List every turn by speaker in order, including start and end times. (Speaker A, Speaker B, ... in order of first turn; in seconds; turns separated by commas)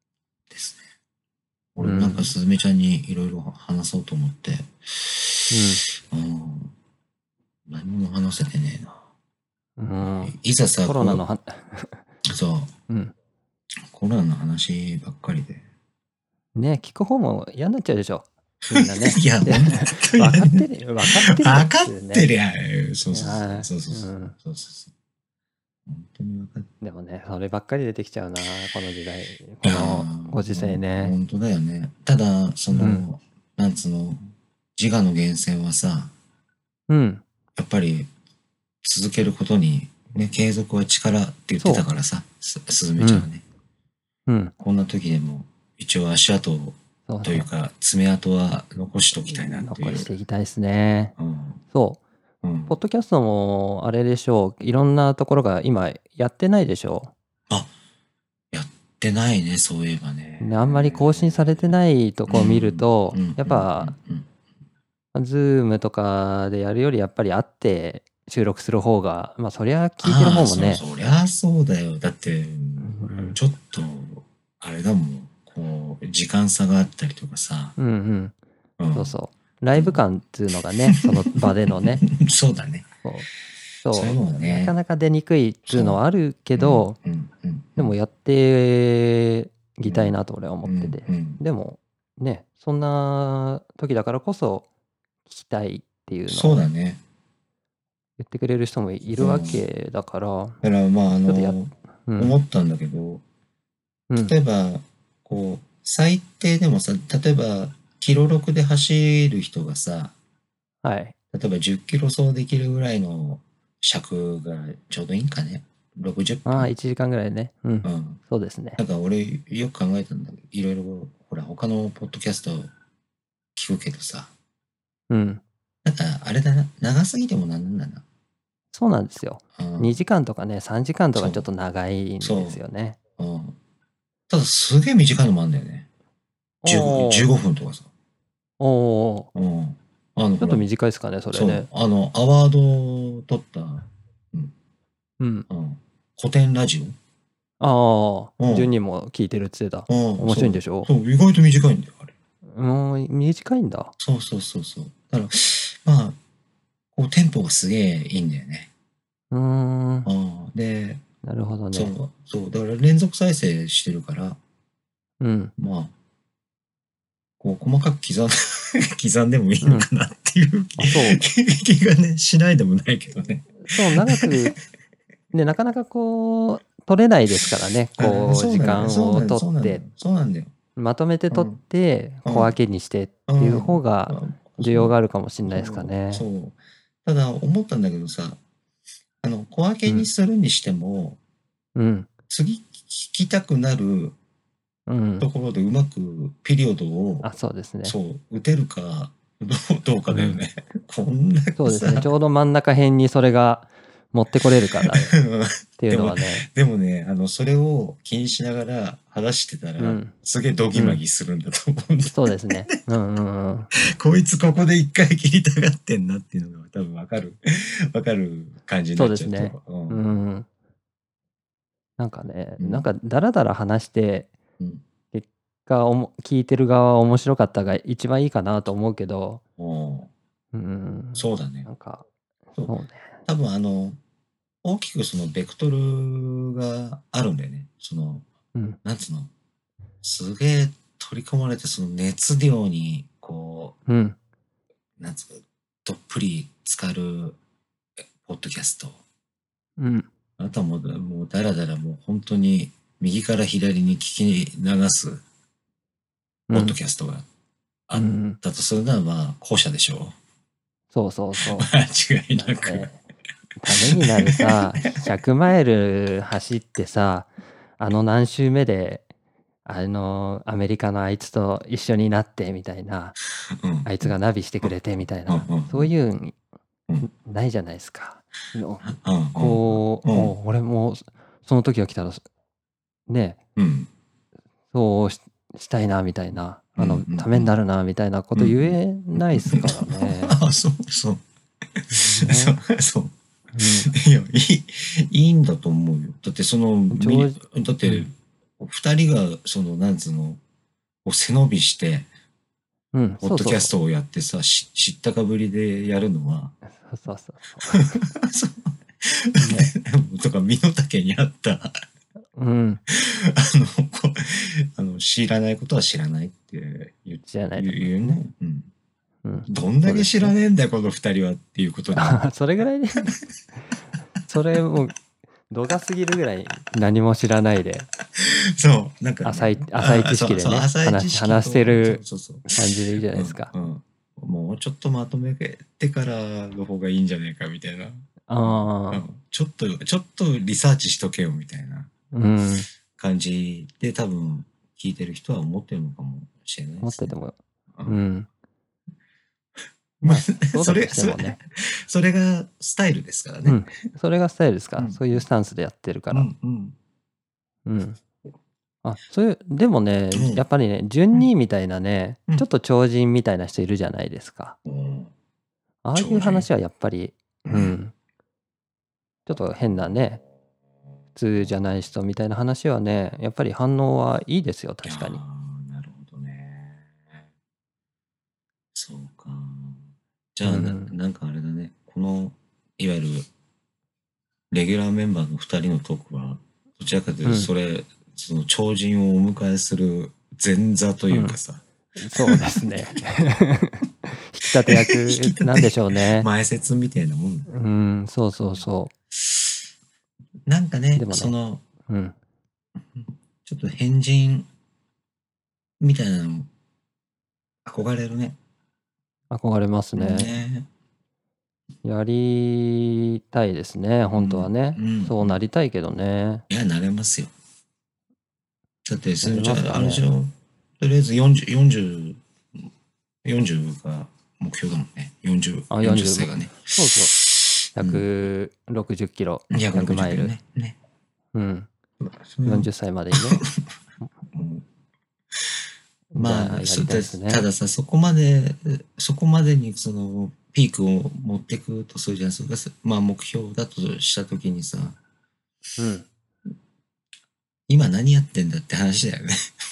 Speaker A: 0.5-0.8, Speaker A: 1.8-6.7, Speaker B: 1.8-2.3, Speaker B: 5.5-5.8, Speaker A: 7.7-9.0, Speaker B: 9.8-12.0, Speaker A: 10.0-11.2, Speaker A: 12.3-12.7, Speaker A: 13.9-15.7, Speaker B: 16.6-22.3, Speaker A: 18.7-24.9, Speaker B: 23.1-24.4, Speaker A: 25.9-26.7, Speaker B: 26.8-31.1, Speaker A: 29.6-34.2, Speaker B: 32.7-33.0, Speaker A: 34.8-36.1, Speaker B: 36.9-37.2, Speaker A: 37.6-38.1, Speaker A: 38.8-43.4, Speaker B: 41.6-41.9, Speaker B: 43.0-43.3, Speaker B: 44.3-44.5, Speaker A: 44.6-50.1, Speaker B: 47.1-47.5, Speaker B: 49.4-51.1, Speaker A: 51.2-51.6, Speaker B: 51.7-52.0, Speaker A: 52.4-52.8, Speaker B: 52.7-57.1, Speaker A: 58.5-64.3, Speaker B: 60.4-63.9, Speaker B: 65.1-70.8, Speaker A: 70.0-77.8, Speaker B: 72.8-73.4, Speaker B: 77.8-78.4, Speaker A: 78.8-79.2, Speaker B: 78.9-82.0, Speaker A: 79.7-80.0, Speaker A: 80.9-82.9, Speaker B: 83.0-83.3, Speaker B: 83.8-87.0, Speaker A: 83.9-84.8, Speaker A: 85.7-86.0, Speaker A: 86.5-88.0, Speaker B: 87.8-94.7, Speaker A: 89.8-91.4, Speaker B: 95.3-96.7, Speaker A: 96.3-97.0, Speaker B: 98.2-100.6, Speaker A: 99.2-99.7, Speaker A: 100.6-103.2, Speaker B: 101.3-102.4, Speaker B: 104.1-104.3, Speaker A: 104.2-110.1, Speaker B: 110.8-111.2, Speaker A: 111.3-116.7, Speaker B: 116.5-118.8, Speaker A: 117.8-118.2, Speaker A: 118.8-122.7, Speaker A: 123.5-124.3, Speaker B: 125.1-125.4, Speaker A: 125.8-128.0, Speaker B: 128.7-133.0, Speaker A: 129.6-130.0, Speaker A: 131.2-131.5, Speaker A: 132.2-132.6, Speaker A: 133.2-133.6, Speaker A: 134.3-135.9, Speaker B: 136.6-137.3, Speaker A: 136.7-137.9, Speaker B: 138.6-139.3, Speaker A: 139.3-140.7, Speaker B: 140.4-141.7, Speaker A: 141.3-144.5, Speaker B: 145.2-145.5, Speaker A: 145.5-147.0, Speaker B: 147.6-150.9, Speaker A: 148.4-148.7, Speaker A: 149.9-152.2, Speaker B: 152.5-153.9, Speaker A: 154.0-156.2, Speaker A: 156.9-158.7, Speaker B: 159.3-160.1, Speaker A: 160.1-161.0, Speaker B: 161.2-161.9, Speaker A: 161.7-164.4, Speaker B: 165.2-165.5, Speaker A: 165.6-165.9, Speaker A: 167.4-174.6, Speaker B: 169.6-169.9, Speaker B: 170.8-171.2, Speaker B: 173.6-174.6, Speaker B: 175.3-179.8, Speaker A: 178.0-180.5, Speaker B: 180.8-186.2, Speaker A: 181.3-181.6, Speaker A: 182.2-182.6, Speaker A: 183.3-184.9, Speaker A: 185.5-188.4, Speaker A: 189.2-191.2, Speaker B: 191.8-192.1, Speaker A: 192.3-194.2, Speaker B: 194.9-195.3, Speaker A: 195.2-197.3, Speaker B: 197.2-198.0, Speaker A: 197.8-202.1, Speaker B: 200.1-200.4, Speaker B: 201.6-205.2, Speaker A: 204.8-212.7, Speaker B: 205.8-206.5, Speaker B: 209.8-210.1, Speaker B: 210.7-211.0, Speaker B: 212.1-213.7, Speaker A: 213.8-220.0, Speaker B: 218.9-220.5, Speaker B: 222.0-224.3, Speaker A: 222.6-222.9, Speaker B: 225.1-229.4, Speaker A: 229.6-230.1, Speaker B: 230.5-233.2, Speaker A: 231.2-231.7, Speaker A: 233.3-234.0, Speaker A: 234.6-238.3, Speaker A: 238.8-239.3, Speaker A: 240.0-243.8, Speaker B: 243.9-244.2, Speaker A: 245.0-247.4, Speaker A: 248.2-249.0, Speaker B: 249.8-250.1, Speaker A: 250.4-255.2, Speaker B: 256.5-256.8, Speaker A: 256.5-257.3, Speaker A: 257.9-260.1, Speaker B: 257.9-258.4, Speaker B: 260.9-261.7, Speaker A: 261.4-262.9, Speaker B: 262.3-263.0, Speaker B: 263.6-269.1, Speaker A: 263.7-265.1, Speaker B: 269.6-273.2, Speaker A: 273.5-274.7, Speaker B: 273.8-276.4, Speaker A: 275.3-275.9, Speaker B: 277.0-282.2, Speaker A: 278.8-280.3, Speaker B: 283.1-283.4, Speaker A: 283.6-283.9, Speaker B: 284.7-290.4, Speaker A: 286.8-287.5, Speaker A: 288.4-291.2, Speaker A: 291.8-293.1, Speaker B: 291.9-292.6, Speaker B: 293.5-293.9, Speaker A: 293.6-300.4, Speaker B: 296.9-298.1, Speaker A: 301.1-302.1, Speaker B: 302.9-303.7, Speaker A: 303.2-306.6, Speaker B: 306.7-308.0, Speaker A: 307.7-311.7, Speaker B: 309.4-309.7, Speaker B: 312.4-312.8, Speaker A: 312.9-318.7, Speaker B: 317.3-318.2, Speaker B: 319.2-320.3, Speaker A: 319.5-322.3, Speaker B: 321.9-323.2, Speaker B: 324.2-325.0, Speaker B: 325.5-327.9, Speaker A: 328.1-341.9, Speaker B: 329.2-332.0, Speaker B: 332.5-333.5, Speaker B: 338.3-339.1, Speaker B: 342.1-342.7, Speaker A: 342.9-347.2, Speaker B: 346.8-348.3, Speaker A: 350.0-353.7, Speaker B: 350.0-351.4, Speaker B: 353.4-356.3, Speaker A: 354.8-355.2, Speaker A: 356.1-356.8, Speaker B: 357.7-358.0, Speaker B: 358.8-364.6, Speaker A: 360.1-360.5, Speaker A: 364.6-365.1, Speaker B: 365.8-367.9, Speaker A: 365.9-366.5, Speaker A: 367.4-367.8, Speaker B: 369.3-370.2, Speaker A: 369.7-370.0, Speaker B: 371.2-375.2, Speaker A: 374.9-377.2, Speaker A: 378.7-379.8, Speaker A: 380.4-383.3, Speaker B: 380.4-380.9, Speaker A: 384.5-392.8, Speaker B: 387.2-387.5, Speaker B: 391.1-391.4, Speaker B: 392.0-396.3, Speaker A: 394.7-397.5, Speaker B: 397.5-398.9, Speaker A: 398.4-399.6, Speaker A: 400.5-401.6, Speaker B: 401.0-401.3, Speaker B: 401.9-402.1, Speaker A: 402.9-404.5, Speaker A: 405.8-406.5, Speaker A: 407.6-408.4, Speaker B: 409.3-410.3, Speaker A: 410.0-410.7, Speaker B: 411.8-416.4, Speaker A: 414.2-415.4, Speaker A: 416.5-417.3, Speaker A: 418.9-422.7, Speaker B: 419.2-420.0, Speaker A: 423.2-428.1, Speaker B: 425.7-427.1, Speaker B: 427.8-430.3, Speaker A: 429.5-430.8, Speaker B: 431.3-431.7, Speaker A: 432.0-433.6, Speaker B: 432.5-433.4, Speaker A: 434.3-434.7, Speaker B: 436.1-437.4, Speaker A: 436.2-445.0, Speaker B: 445.8-446.1, Speaker A: 447.7-449.5